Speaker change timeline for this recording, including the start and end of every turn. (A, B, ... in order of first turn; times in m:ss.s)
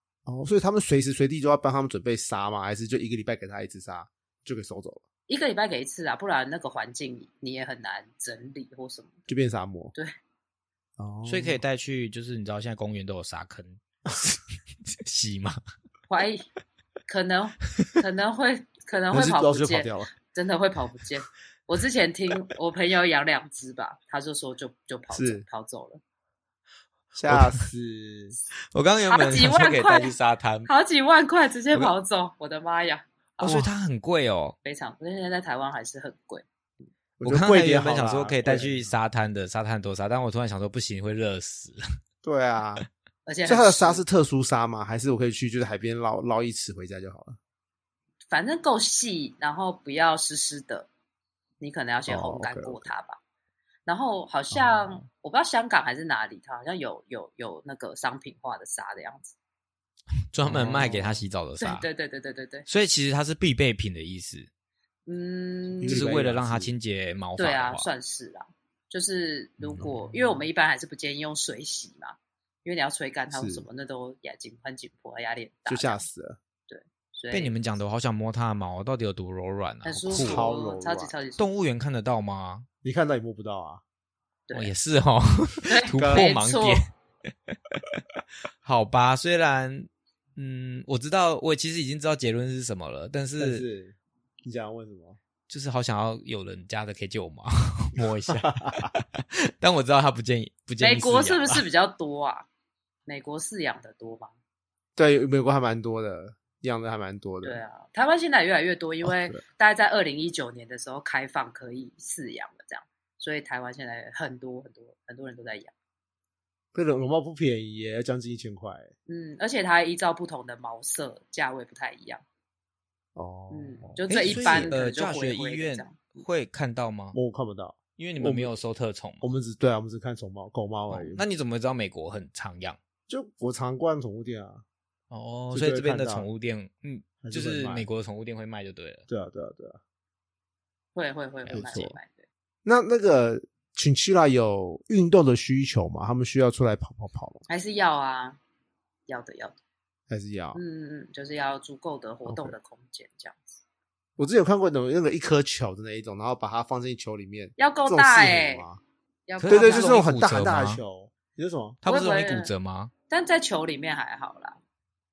0:00.2-0:05.0 A
0:05.3-0:09.2 B
0:09.3-0:09.9 A
0:11.0-0:11.6 A
0:11.2-0:15.6 C
0:16.1-0:16.4 B
0:17.1-0:26.0 B
0:19.1-0:20.1 A
0:25.1-0:25.4 A
0:27.1-0:28.4 A
0:27.3-0:27.6 C
0:28.7-0:30.7 C
0:29.1-0:30.1 B
0:30.7-0:33.6 B
0:33.4-0:34.6 C
0:34.6-0:36.4 B
0:37.2-0:38.9 A
0:37.2-0:41.8 C
0:42.2-0:42.8 A
0:43.2-0:44.0 B
0:43.4-0:47.4 A
0:48.3-0:50.9 B
0:51.6-0:53.2 B
0:52.1-0:52.9 A
0:53.8-0:59.3 B
0:54.5-0:55.0 A
1:00.3-1:01.9 C
1:00.4-1:01.2 A
1:01.6-1:02.7 B
1:02.7-1:04.5 C
1:05.1-1:06.0 B
1:05.7-1:06.7 A
1:05.8-1:07.9 C
1:07.4-1:16.0 B
1:09.6-1:10.4 A
1:13.3-1:13.6 A
1:15.7-1:16.4 A
1:16.7-1:17.5 B
1:17.3-1:20.5 C
1:19.8-1:21.5 B
1:20.1-1:21.2 A
1:21.4-1:22.7 C
1:22.8-1:23.8 A
1:24.5-1:24.7 B
1:24.5-1:26.9 C
1:25.7-1:26.8 B
1:25.9-1:26.3 A
1:27.5-1:27.8 C
1:28.6-1:33.6 C
1:33.4-1:35.2 A
1:35.5-1:41.6 C
1:38.3-1:38.9 A
1:40.8-1:42.4 B
1:43.1-1:44.3 B
1:45.0-1:47.6 A
1:47.4-1:55.7 B
1:49.0-1:49.4 A
1:56.7-1:58.9 A
1:59.1-2:02.2 B
2:03.1-2:04.7 A
2:03.5-2:06.2 B
2:04.1-2:07.2 C
2:07.1-2:08.5 A
2:08.0-2:09.2 C
2:09.2-2:11.2 A
2:10.9-2:12.8 C
2:13.1-2:14.6 A
2:15.1-2:19.1 C
2:15.5-2:16.3 A
2:17.2-2:17.8 A
2:19.1-2:19.8 A
2:20.9-2:22.2 B
2:21.5-2:21.9 C
2:21.5-2:21.9 A
2:22.6-2:27.4 A
2:27.5-2:28.4 B
2:29.1-2:29.6 B
2:30.1-2:30.6 A
2:30.5-2:33.6 B
2:32.2-2:32.6 A
2:34.2-2:38.8 A
2:37.6-2:38.6 B
2:39.3-2:40.0 B
2:39.4-2:40.8 C
2:39.4-2:41.8 A
2:41.8-2:42.9 C
2:41.8-2:42.5 B
2:43.1-2:44.6 B